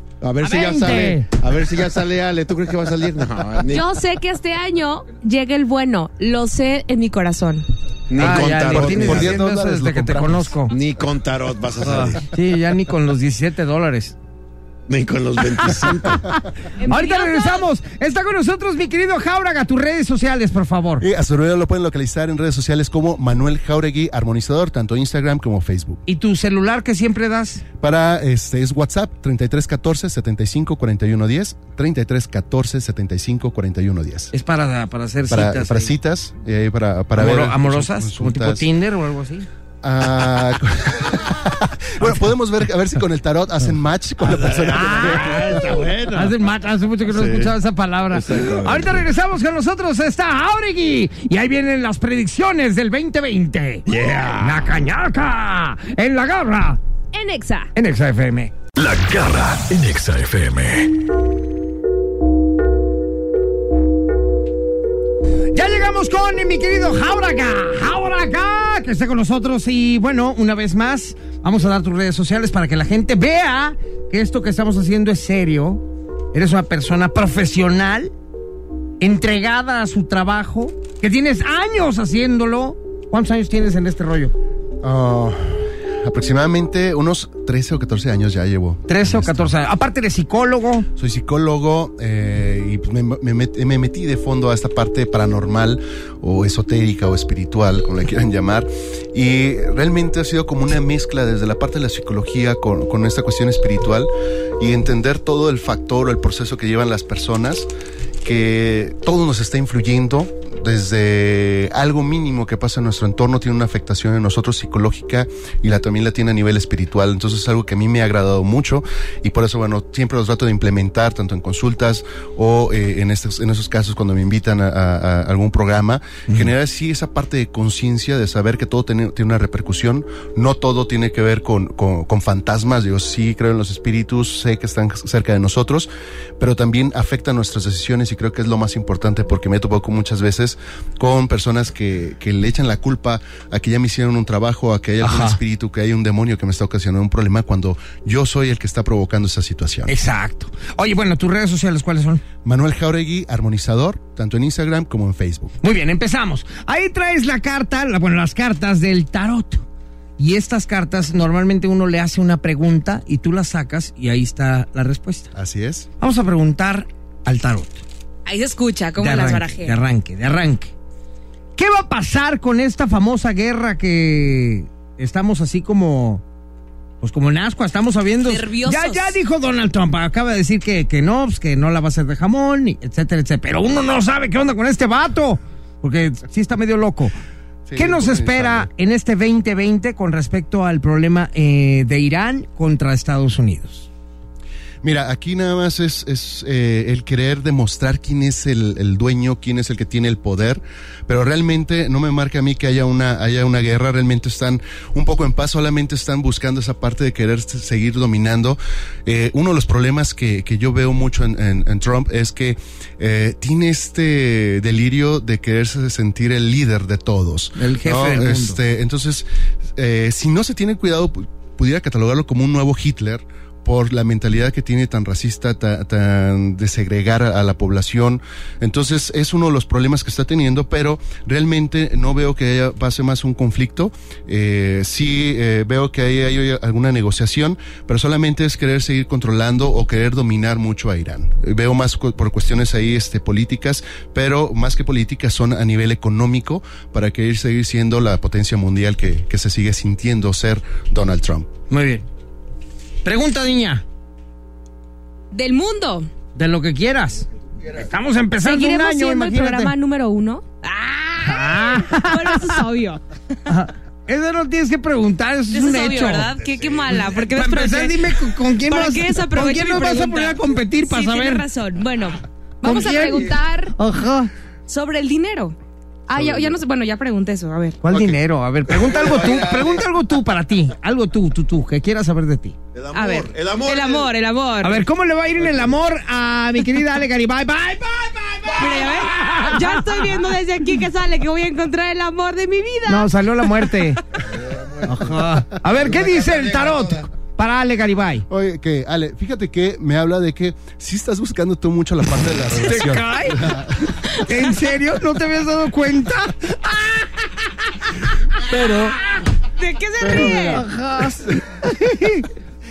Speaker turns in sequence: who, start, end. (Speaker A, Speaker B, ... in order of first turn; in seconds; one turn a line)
Speaker A: 0.2-3.8
Speaker B: 0.4-1.3
Speaker C: 3.7-7.7
Speaker A: 8.1-9.4
Speaker B: 8.2-10.7
Speaker D: 8.3-10.6
Speaker A: 10.7-12.2
Speaker B: 11.8-14.1
Speaker A: 14.9-16.3
Speaker C: 16.8-17.7
Speaker B: 16.9-21.0
Speaker D: 21.0-26.0
Speaker B: 26.1-27.6
Speaker D: 27.8-34.3
Speaker B: 34.3-35.9
Speaker D: 35.3-38.7
Speaker B: 37.1-39.5
Speaker D: 39.8-45.7
Speaker A: 44.2-46.4
Speaker B: 44.7-53.9
Speaker A: 47.1-47.5
Speaker A: 48.1-49.1
Speaker A: 53.9-54.7
Speaker B: 54.4-56.8
Speaker C: 57.1-57.7
Speaker B: 57.7-58.5
Speaker E: 58.7-60.9
Speaker B: 65.5-78.1
Speaker B: 79.0-84.3
Speaker D: 84.8-89.5
Speaker B: 88.9-90.9
Speaker D: 91.0-107.7
Speaker D: 108.2-149.9
Speaker B: 145.0-145.4
Speaker B: 149.9-152.2
Speaker D: 152.4-155.5
Speaker B: 155.6-159.6
Speaker B: 160.2-165.3
Speaker D: 165.3-165.9
Speaker B: 166.0-167.8
Speaker C: 168.2-169.8
Speaker B: 169.0-170.7
Speaker B: 171.6-176.2
Speaker B: 177.0-187.1
Speaker C: 178.2-179.2
Speaker D: 187.7-188.7
Speaker B: 187.8-193.9
Speaker D: 194.8-251.5
Speaker B: 217.6-218.6
Speaker B: 251.7-252.0
Speaker B: 253.0-253.8
Speaker C: 255.3-256.1
Speaker B: 256.4-259.7
Speaker C: 258.4-263.0
Speaker B: 261.2-262.6
Speaker B: 263.5-266.3
Speaker C: 265.5-273.7
Speaker A: 266.4-267.1
Speaker B: 267.3-271.4
Speaker B: 272.6-274.3
Speaker C: 274.7-275.6
Speaker C: 276.1-277.8
Speaker B: 277.8-282.5
Speaker A: 278.7-279.8
Speaker A: 282.7-284.1
Speaker C: 282.9-284.8
Speaker B: 284.6-290.0
Speaker A: 285.4-285.7
Speaker A: 288.3-289.4
Speaker C: 288.6-293.8
Speaker B: 292.9-294.0
Speaker A: 294.3-297.1
Speaker B: 294.9-298.2
Speaker D: 298.3-303.9
Speaker B: 302.6-307.0
Speaker D: 308.4-309.0
Speaker C: 309.6-310.6
Speaker D: 310.0-311.4
Speaker B: 310.1-312.3